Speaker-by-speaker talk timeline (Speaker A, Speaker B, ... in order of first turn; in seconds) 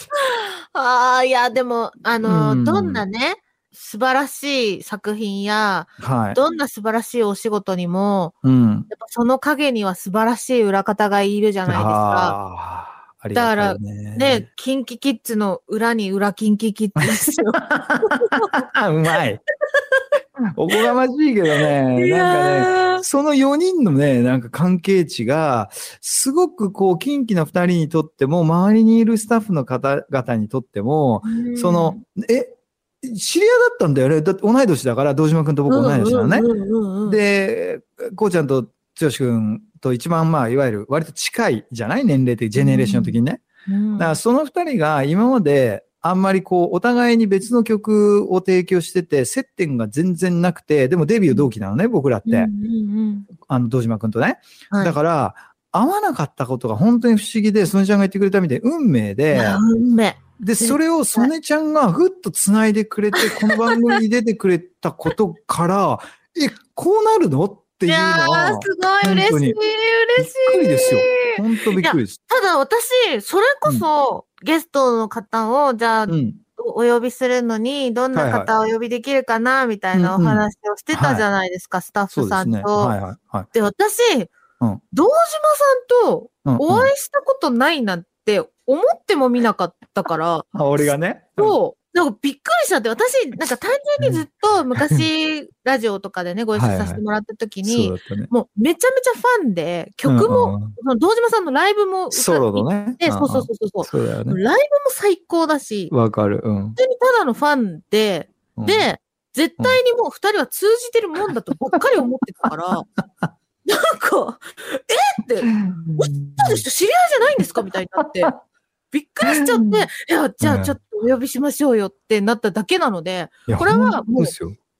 Speaker A: 0.2-8.3, 8.9-12.3, 13.3-18.5, 21.5-23.0, 31.2-32.0, 35.7-37.2, 42.5-44.2, 52.2-53.3, 54.7-55.0, 59.3-61.3, 63.1-64.0, 67.8-83.0, 83.5-84.3, 84.9-105.9, 106.8-112.8, 113.6-118.3, 118.9-124.3
Speaker B: 2.2-3.0, 6.0-6.4, 8.4-8.9, 11.7-14.5, 17.0-19.4, 20.5-36.5, 37.0-43.4, 44.0-52.5, 53.4-59.6, 60.4-69.6, 70.2-72.2, 76.1-76.4, 78.1-78.5, 79.9-81.2, 82.1-83.5, 86.5-86.9, 90.5-91.6, 94.0-95.0, 96.5-97.0, 97.6-98.3, 100.0-100.7, 102.1-104.4, 105.9-106.8, 108.5-108.9, 115.4-116.6, 118.0-118.4, 119.2-119.9, 120.4-120.8, 123.5-124.5